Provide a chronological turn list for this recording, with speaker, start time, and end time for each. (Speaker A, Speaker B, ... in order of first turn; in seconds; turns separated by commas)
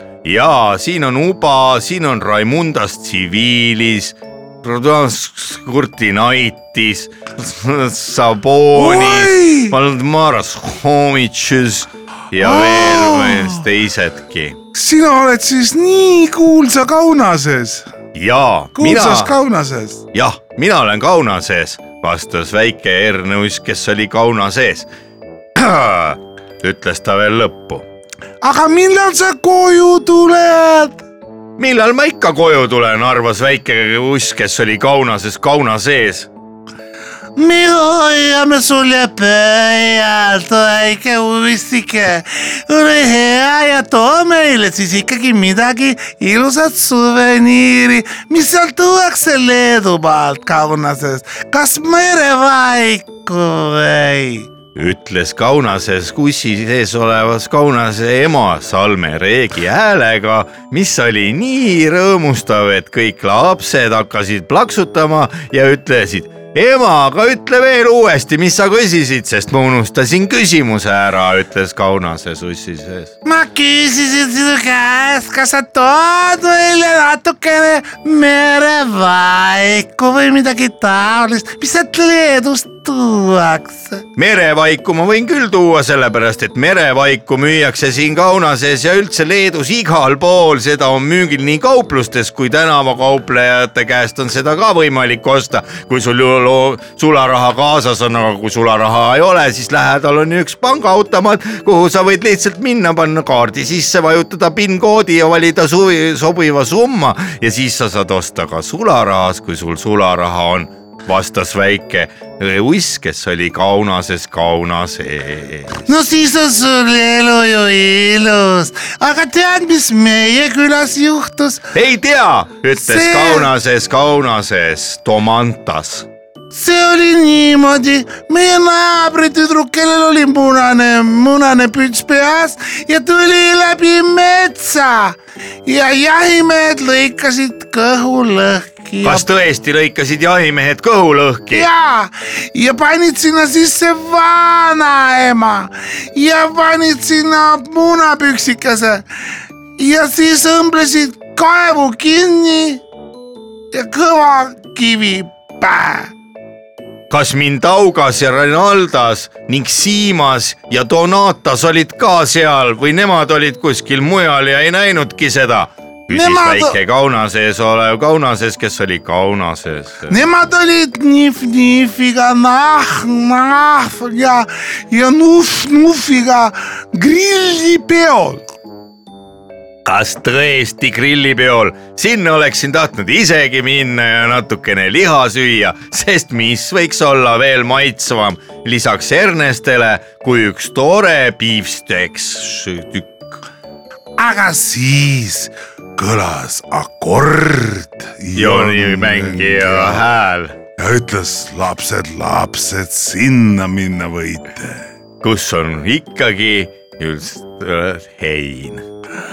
Speaker A: 0.2-14.6, Speaker B: 14.8-17.9, Speaker A: 18.1-19.4, Speaker B: 18.8-20.0, Speaker A: 20.1-24.9, Speaker A: 25.6-27.9, Speaker C: 28.4-31.0, Speaker A: 31.6-36.3, Speaker C: 37.4-54.5, Speaker A: 54.7-73.1, Speaker C: 73.2-84.0, Speaker A: 84.2-115.9, Speaker C: 115.9-121.6, Speaker A: 121.7-126.1, Speaker C: 122.8-123.5, Speaker C: 126.5-139.2, Speaker A: 139.0-141.7, Speaker C: 141.5-149.0, Speaker C: 149.8-152.8, Speaker C: 153.7-156.1, Speaker A: 157.1-170.2, Speaker C: 166.1-166.8, Speaker C: 170.1-178.4, Speaker A: 179.8-193.3, Speaker B: 194.3-200.0, Speaker A: 198.3-200.6, Speaker B: 200.8-204.8, Speaker A: 205.2-208.8